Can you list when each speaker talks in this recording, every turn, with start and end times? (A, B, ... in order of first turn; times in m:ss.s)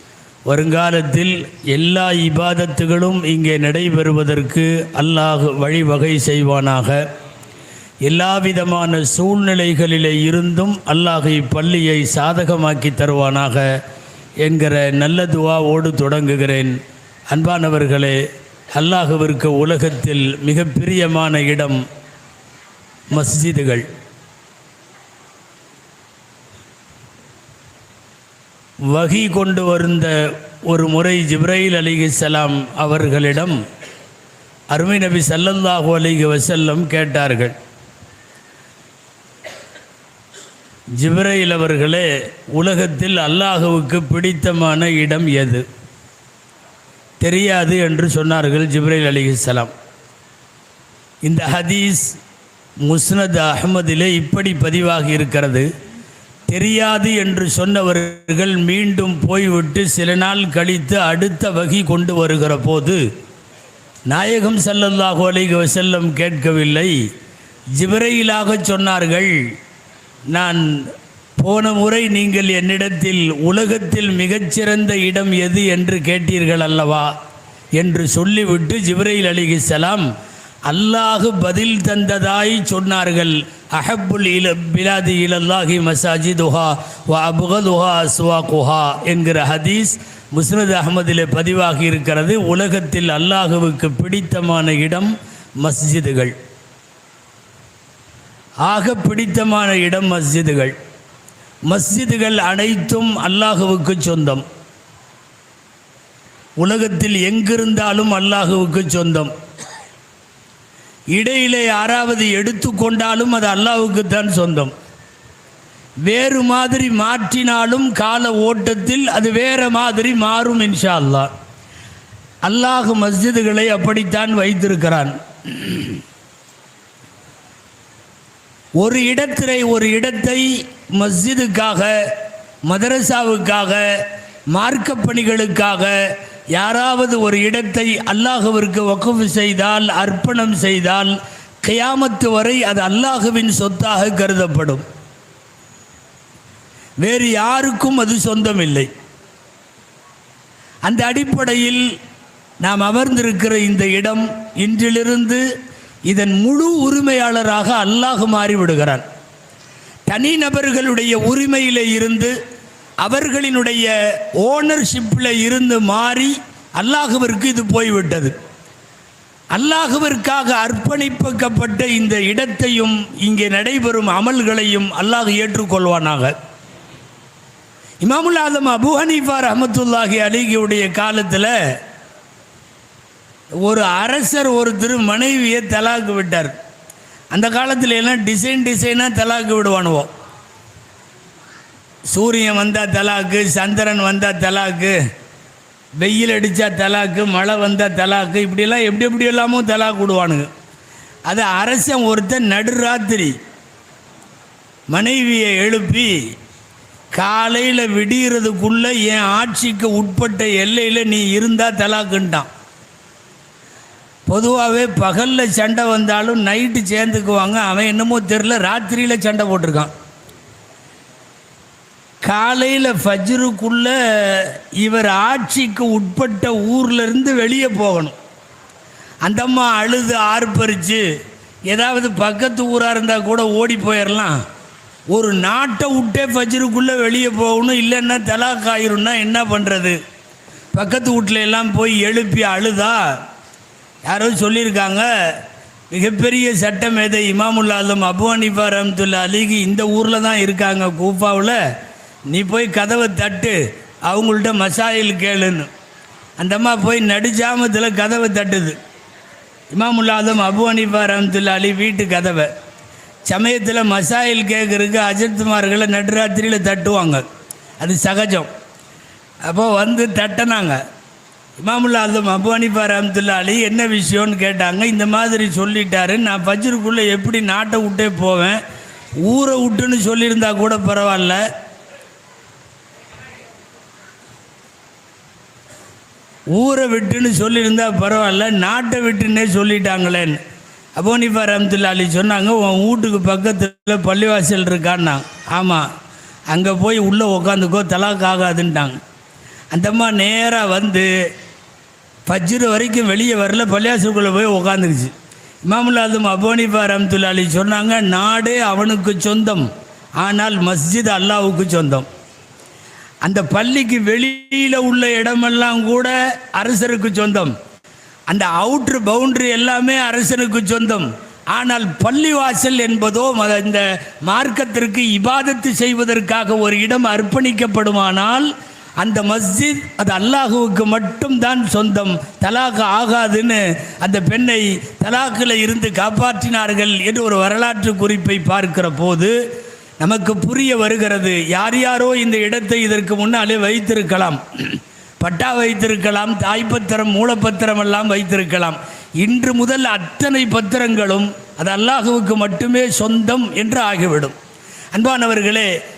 0:00.5-0:07.1 A
0:08.0-0:13.8 A
0:14.4-0:16.8 A
0:17.3-0:18.2 A
0:18.7-0:21.8 A
0:23.1-0:23.9 A
0:28.9-0:33.6 A
0:34.7-0:37.5 A
0:41.0-0:45.6 A
0:47.2-0:49.7 A
0:51.2-0:52.2 A
0:52.8-0:55.7 A
0:56.5-1:03.0 A
1:04.1-1:06.9 A
1:07.8-1:09.5 A
1:10.3-1:17.1 A
1:17.8-1:20.1 A
1:20.7-1:36.3 A
1:38.6-1:40.7 A
1:41.7-1:44.4 A
1:46.6-1:49.3 A
1:51.1-1:54.7 A
1:56.0-2:01.3 A
2:02.4-2:06.0 A
2:08.8-2:12.1 A
2:12.7-2:15.9 A
2:16.5-2:24.8 A
2:27.0-2:28.9 A
2:30.8-2:31.9 A
2:32.6-2:35.4 A
2:36.1-2:39.0 A
2:40.1-2:42.3 A
2:43.0-2:48.3 A
2:49.5-2:56.3 A
2:58.0-3:01.5 A
3:03.6-3:06.5 A
3:07.3-3:10.1 A
3:12.1-3:15.0 A
3:16.0-3:20.5 A
3:21.3-3:23.3 A
3:24.9-3:26.1 A
3:27.1-3:32.5 A
3:34.3-3:39.9 A
3:42.2-3:48.1 A
3:49.2-3:51.0 A
3:51.7-3:54.4 A
3:55.1-4:00.0 A
4:00.7-4:03.1 A
4:04.0-4:05.4 A
4:05.9-4:11.6 A
4:12.3-4:15.7 A
4:16.4-4:18.8 A
4:19.7-4:22.5 A
4:23.2-4:27.2 A
4:27.8-4:28.5 A
4:29.4-4:30.8 A
4:31.6-4:38.6 A
4:39.2-4:41.4 A
4:46.5-4:50.4 A
4:51.0-4:55.9 A
4:56.5-4:59.0 A
4:59.7-5:01.1 A
5:02.3-5:05.1 A
5:05.6-5:09.7 A
5:10.2-5:12.1 A
5:13.2-5:17.5 A
5:18.3-5:28.5 A
5:29.0-5:39.3 A
5:40.0-5:54.3 A
5:54.9-5:55.7 A